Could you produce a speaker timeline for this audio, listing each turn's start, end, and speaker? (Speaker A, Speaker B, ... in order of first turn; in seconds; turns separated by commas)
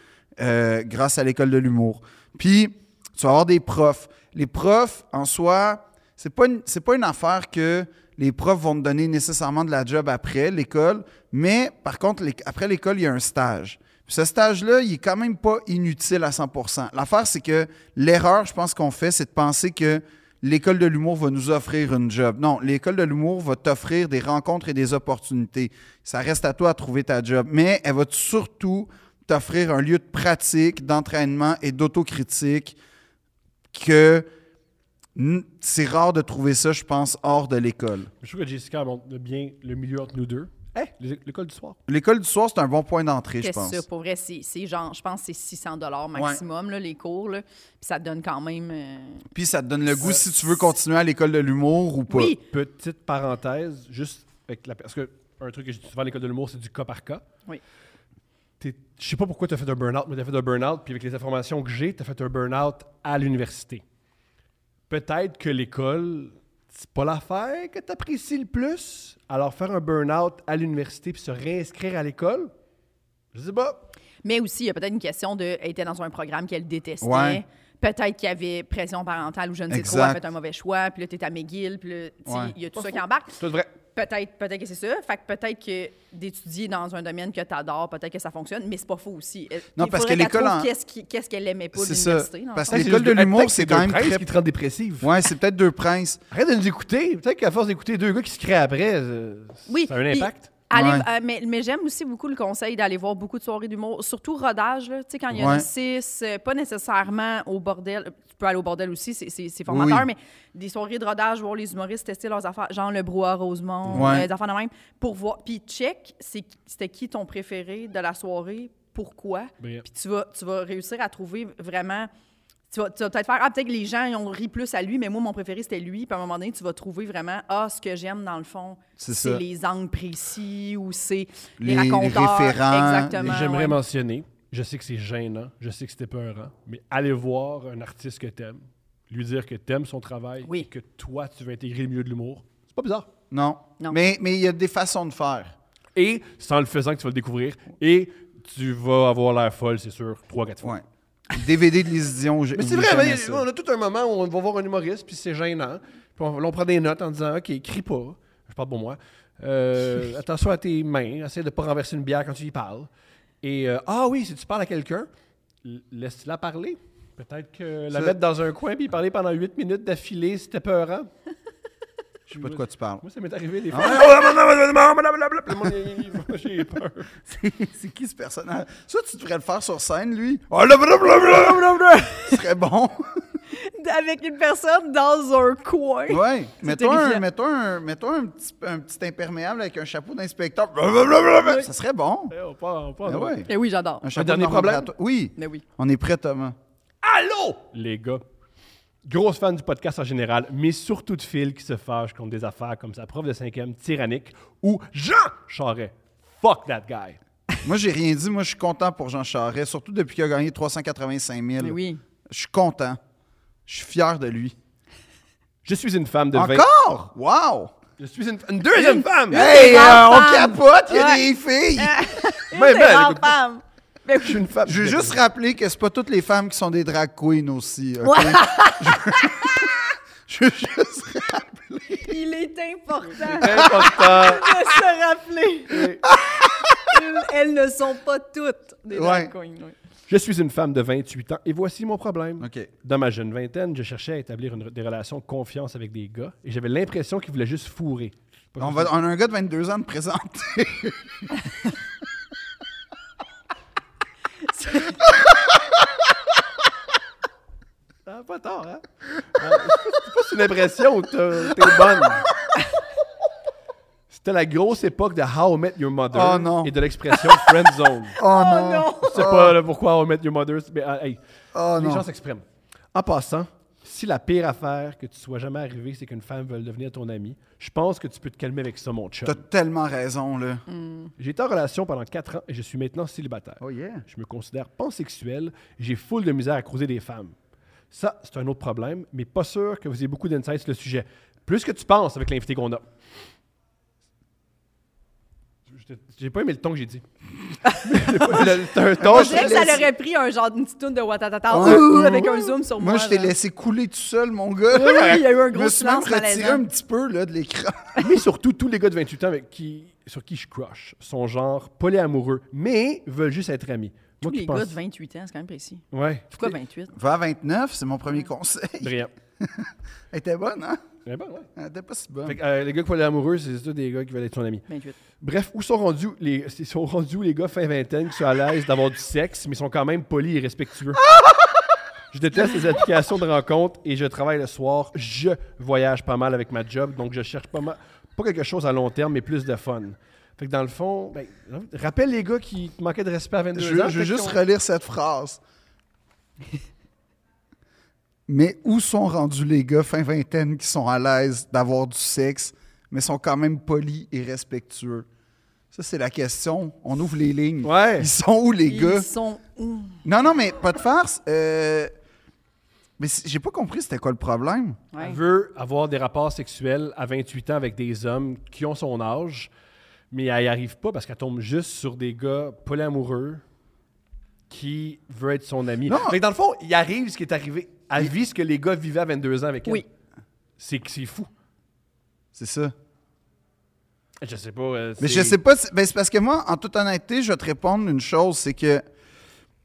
Speaker A: 0.4-32.8, Speaker A: 33.7-34.3, Speaker A: 35.1-38.1, Speaker B: 38.2-41.8, Speaker A: 41.9-43.8, Speaker C: 43.4-49.3, Speaker A: 46.1-46.4, Speaker A: 49.3-52.4, Speaker C: 52.1-52.4, Speaker B: 52.4-57.2, Speaker B: 58.6-63.8, Speaker B: 64.9-72.5, Speaker B: 73.3-73.9, Speaker C: 74.2-83.4, Speaker A: 77.0-77.4, Speaker A: 79.7-80.2, Speaker A: 82.3-82.5, Speaker B: 83.4-83.7, Speaker C: 83.9-92.9, Speaker A: 89.8-90.7, Speaker A: 91.8-94.3, Speaker B: 92.7-95.1, Speaker A: 95.0-96.2, Speaker B: 96.3-100.5, Speaker C: 99.7-122.1, Speaker A: 100.7-101.0, Speaker A: 105.3-105.7, Speaker A: 109.7-110.1, Speaker B: 113.9-114.1, Speaker A: 113.9-114.3, Speaker B: 119.6-119.8, Speaker C: 122.7-133.8, Speaker A: 129.0-129.4, Speaker A: 131.6-133.3, Speaker B: 133.2-143.1, Speaker A: 143.3-145.6, Speaker B: 145.9-150.8, Speaker A: 150.6-153.4, Speaker B: 152.6-162.9, Speaker B: 163.4-165.1, Speaker B: 165.6-171.1, Speaker A: 172.3-173.0, Speaker B: 172.3-177.1, Speaker A: 173.7-174.1, Speaker A: 177.3-183.2, Speaker C: 181.4-182.4, Speaker C: 183.5-187.2, Speaker A: 186.1-192.3, Speaker B: 192.3-193.4, Speaker A: 193.1-193.5, Speaker C: 193.5-194.1, Speaker A: 194.0-196.6, Speaker B: 194.2-194.9, Speaker C: 195.4-195.6, Speaker B: 197.0-198.2, Speaker B: 199.0-207.2, Speaker A: 207.6-213.0, Speaker C: 211.6-212.0, Speaker A: 213.7-214.6, Speaker B: 215.6-216.7, Speaker A: 216.3-217.7, Speaker B: 218.0-219.5, Speaker C: 218.8-221.2, Speaker A: 219.3-222.0, Speaker C: 221.8-224.4, Speaker B: 222.5-223.4, Speaker B: 224.2-225.2, Speaker A: 224.7-232.2, Speaker C: 228.0-229.2, Speaker C: 232.1-235.9, Speaker B: 233.2-234.5, Speaker A: 233.4-234.1, Speaker B: 235.7-236.0, Speaker A: 236.0-236.9, Speaker C: 236.9-239.8, Speaker A: 238.9-239.3, Speaker B: 240.1-248.9, Speaker A: 242.4-242.7, Speaker A: 248.6-251.3, Speaker C: 254.5-255.0, Speaker B: 258.1-262.3, Speaker B: 264.1-268.2, Speaker A: 266.1-266.7, Speaker A: 268.2-269.6, Speaker C: 268.2-269.1, Speaker B: 269.1-271.2, Speaker A: 271.5-272.1, Speaker B: 271.7-279.4, Speaker A: 279.2-280.6, Speaker C: 280.7-281.1, Speaker B: 281.2-287.3, Speaker A: 283.6-284.1, Speaker B: 287.9-292.9, Speaker B: 295.7-297.0, Speaker C: 297.6-303.3, Speaker B: 297.8-299.7, Speaker A: 299.0-299.9, Speaker A: 301.5-308.0, Speaker B: 301.7-302.2, Speaker C: 304.7-306.6, Speaker B: 308.0-314.8, Speaker C: 314.2-316.9, Speaker B: 315.9-316.5, Speaker A: 316.9-320.8, Speaker B: 318.8-319.1, Speaker B: 321.1-321.5, Speaker A: 321.6-322.4, Speaker B: 322.3-324.7, Speaker C: 324.7-325.0, Speaker B: 325.2-331.0, Speaker B: 332.1-344.4, Speaker A: 343.6-345.4, Speaker A: 348.3-355.1, Speaker A: 355.7-359.1, Speaker B: 357.6-358.1, Speaker C: 358.7-360.0, Speaker A: 360.0-361.9, Speaker A: 363.0-364.8, Speaker C: 364.9-365.2, Speaker B: 365.0-369.5, Speaker B: 370.1-373.4, Speaker B: 374.5-379.9, Speaker A: 375.9-376.2, Speaker B: 380.6-381.3, Speaker A: 382.3-382.7, Speaker B: 384.2-385.4, Speaker A: 385.0-388.8